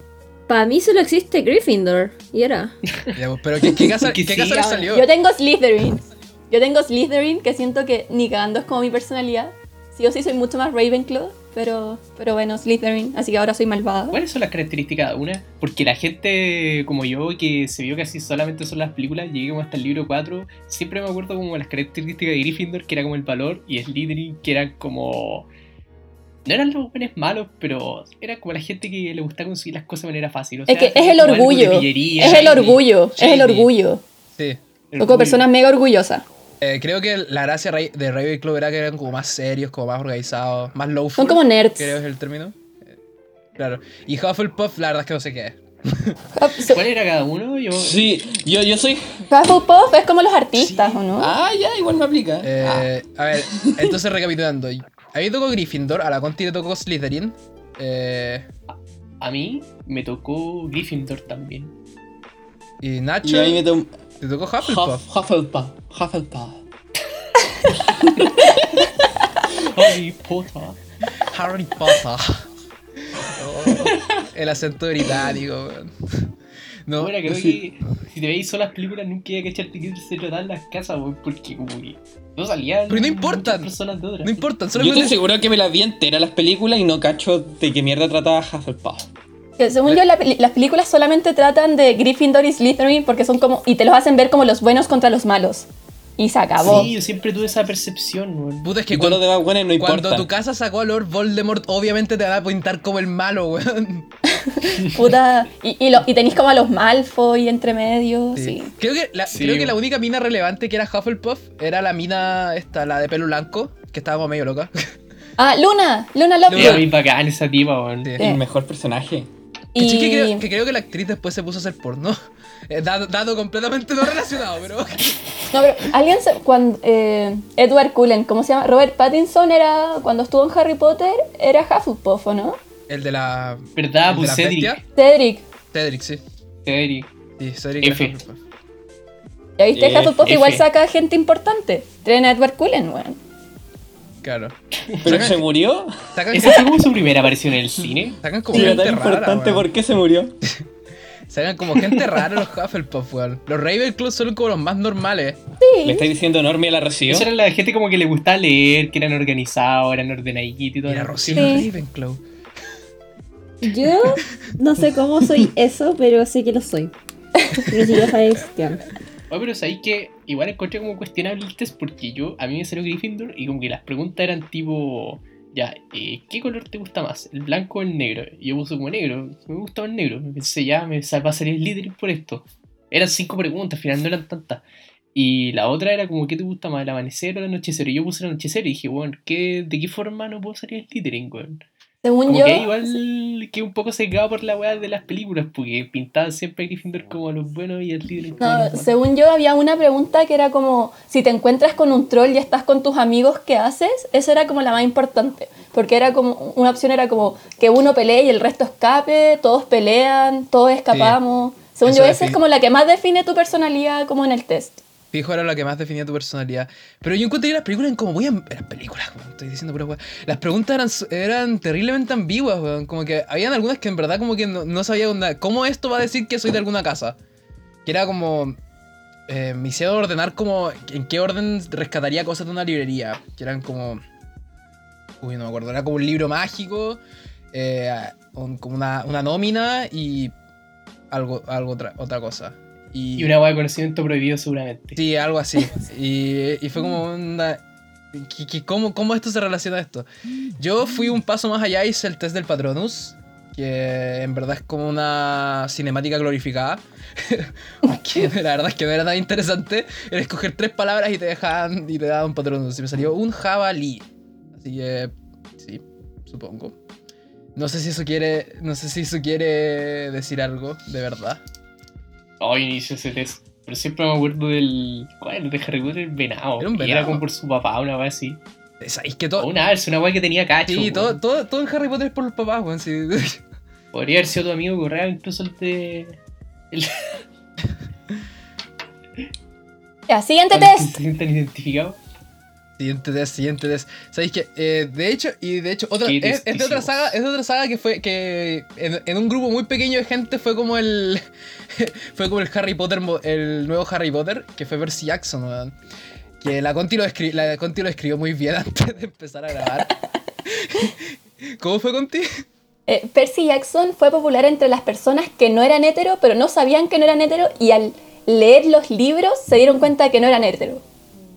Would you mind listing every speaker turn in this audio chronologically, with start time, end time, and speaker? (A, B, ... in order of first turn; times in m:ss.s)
0:00.5-0:02.7 A
0:03.0-0:04.8 B
0:03.2-0:05.1 C
0:04.8-0:14.2 D
0:14.1-0:25.5 B
0:26.4-0:32.9 B
0:30.7-0:34.0 D
0:32.2-0:32.6 C
0:33.2-0:33.7 C
0:34.4-0:34.6 C
0:34.9-0:35.5 B
0:35.0-0:36.2 D
0:36.6-0:42.9 C
0:41.2-0:42.0 D
0:43.6-0:46.2 C
0:46.4-0:46.8 D
0:46.7-0:48.0 B
0:47.7-0:49.2 E
0:49.3-0:51.3 D
0:50.5-0:51.0 C
0:51.1-0:53.9 E
0:52.4-0:58.5 C
0:58.7-1:01.7 B
1:02.8-1:03.7 C
1:03.2-1:03.9 E
1:04.2-1:05.0 C
1:04.6-1:06.6 E
1:07.7-1:08.9 E
1:09.6-1:10.8 B
1:11.3-1:12.4 C
1:13.4-1:14.0 E
1:13.6-1:16.3 C
1:16.9-1:17.3 C
1:17.0-1:24.4 B
1:22.9-1:23.7 C
1:24.2-1:25.2 C
1:24.8-1:29.1 E
1:29.6-1:36.9 D
1:36.6-1:38.7 B
1:38.6-1:39.3 C
1:38.9-1:40.3 E
1:39.8-1:44.1 C
1:44.3-1:48.7 D
1:48.4-1:54.8 C
1:49.3-1:49.8 B
1:55.4-1:56.9 D
1:56.5-1:56.9 C
1:56.5-1:58.1 B
1:58.0-1:58.3 C
1:58.2-1:59.3 E
1:59.8-2:00.4 D
1:59.8-2:02.2 C
2:02.7-2:05.2 C
2:05.5-2:12.6 D
2:12.9-2:14.8 C
2:13.8-2:14.8 B
2:15.0-2:15.4 D
2:15.7-2:16.2 C
2:16.6-2:17.1 B
2:17.4-2:18.4 C
2:17.8-2:18.2 B
2:19.6-2:23.2 D
2:19.8-2:20.3 E
2:20.2-2:20.7 B
2:24.2-2:25.4 C
2:25.0-2:25.9 E
2:26.2-2:26.8 C
2:26.3-2:28.2 B
2:28.2-2:29.7 C
2:28.5-2:30.4 E
2:28.5-2:28.8 D
2:31.3-2:35.4 C
2:31.8-2:32.2 B
2:35.6-2:36.1 D
2:35.8-2:37.3 E
2:37.1-2:41.7 B
2:40.8-2:42.2 C
2:41.4-2:41.7 D
2:43.6-2:46.9 A
2:47.5-2:48.9 A
2:49.3-3:04.6 B
3:05.2-3:11.6 B
3:12.0-3:12.7 D
3:12.3-3:18.9 B
3:18.4-3:34.8 D
3:30.9-3:31.2 C
3:31.8-3:32.4 C
3:35.1-3:47.2 C
3:47.8-3:48.6 C
3:49.3-3:54.0 C
3:55.2-3:57.0 C
3:57.5-4:00.3 C
4:01.1-4:03.3 C
4:03.2-4:05.0 B
4:05.0-4:07.6 C
4:08.1-4:10.1 C
4:10.6-4:26.8 C
4:27.6-4:31.4 C
4:32.4-4:38.4 B
4:36.6-4:37.2 C
4:38.8-4:39.5 C
4:39.4-4:41.2 B
4:40.7-4:43.4 C
4:43.9-4:46.2 B
4:46.7-4:47.2 B
4:50.1-4:51.0 D
4:50.5-4:52.0 B
4:52.8-5:05.8 C
4:56.0-4:57.2 B
5:06.4-5:09.9 C
5:10.4-5:12.4 C
5:12.9-5:20.8 D